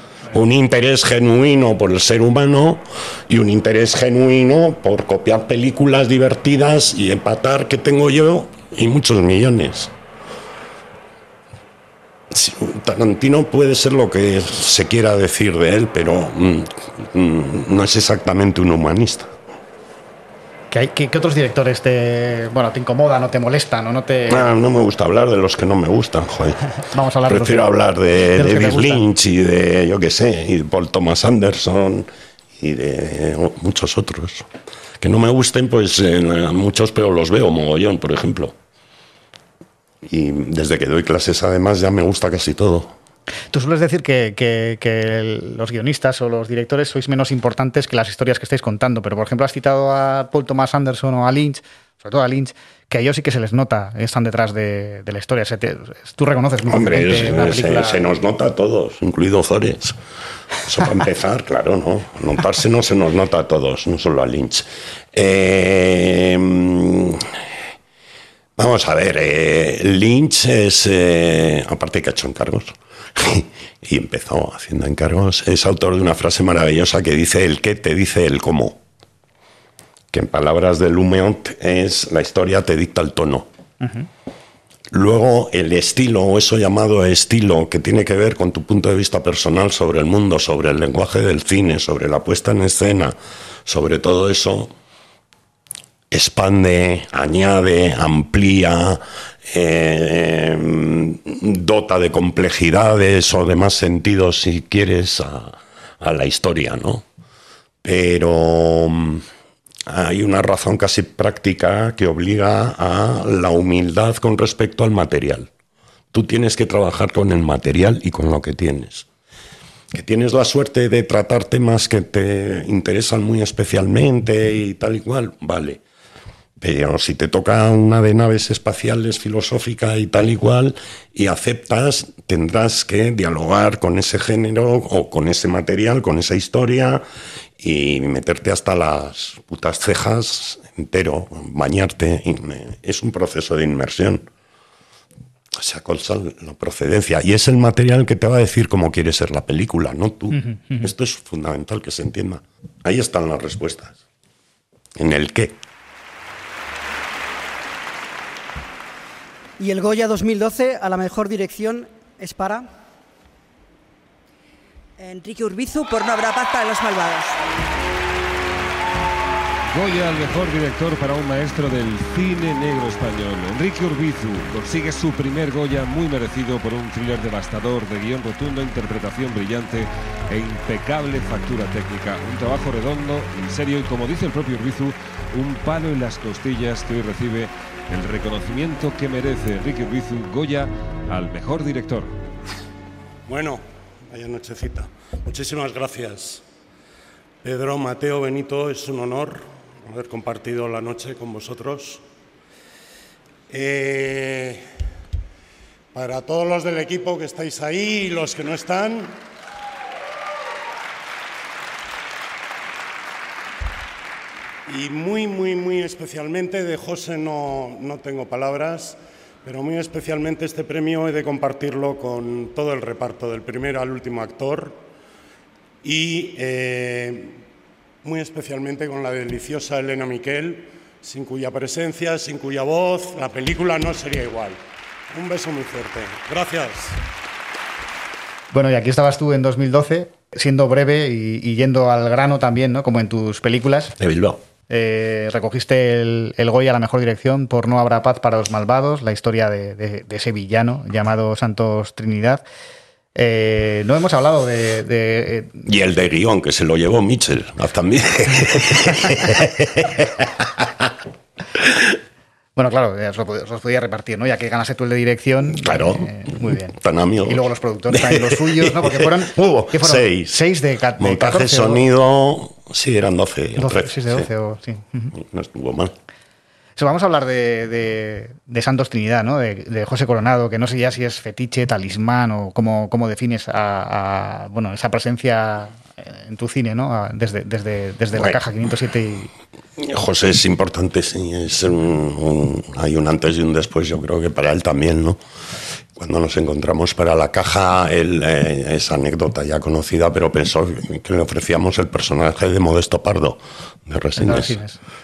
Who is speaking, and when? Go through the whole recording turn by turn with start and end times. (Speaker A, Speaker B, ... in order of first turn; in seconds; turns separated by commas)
Speaker A: 0.3-9.9, Speaker A: 12.3-19.3, Speaker B: 20.7-24.5, Speaker A: 24.3-26.6, Speaker B: 26.8-27.7, Speaker A: 27.3-34.5, Speaker B: 28.3-29.0, Speaker A: 35.0-38.6, Speaker A: 40.0-42.9, Speaker B: 43.5-58.1, Speaker A: 56.7-60.0, Speaker A: 60.6-67.3, Speaker A: 68.6-78.8, Speaker A: 80.1-83.5, Speaker B: 83.8-84.1, Speaker A: 84.9-94.7, Speaker A: 96.1-107.0, Speaker A: 107.8-109.3, Speaker A: 109.9-115.5, Speaker A: 116.1-119.1, Speaker A: 119.9-125.8, Speaker A: 126.6-137.0, Speaker A: 137.6-144.3, Speaker A: 145.5-154.0, Speaker B: 150.3-150.9, Speaker A: 155.0-155.6, Speaker C: 159.6-162.7, Speaker D: 165.0-167.4, Speaker E: 169.7-192.1, Speaker A: 193.3-196.4, Speaker A: 197.4-202.0, Speaker A: 203.5-204.7, Speaker A: 205.9-209.2, Speaker A: 214.7-224.8, Speaker A: 225.8-227.4, Speaker A: 228.0-234.6, Speaker A: 235.1-237.0, Speaker B: 238.5-243.9, Speaker A: 244.0-244.4, Speaker B: 244.7-252.4, Speaker B: 253.2-255.7, Speaker A: 255.7-260.8, Speaker A: 261.6-261.8, Speaker B: 262.6-271.9, Speaker A: 265.5-270.4, Speaker A: 271.0-274.3, Speaker B: 273.6-275.1, Speaker A: 275.1-275.9, Speaker B: 276.8-289.3, Speaker A: 289.8-295.2, Speaker A: 296.0-304.6, Speaker B: 304.2-304.8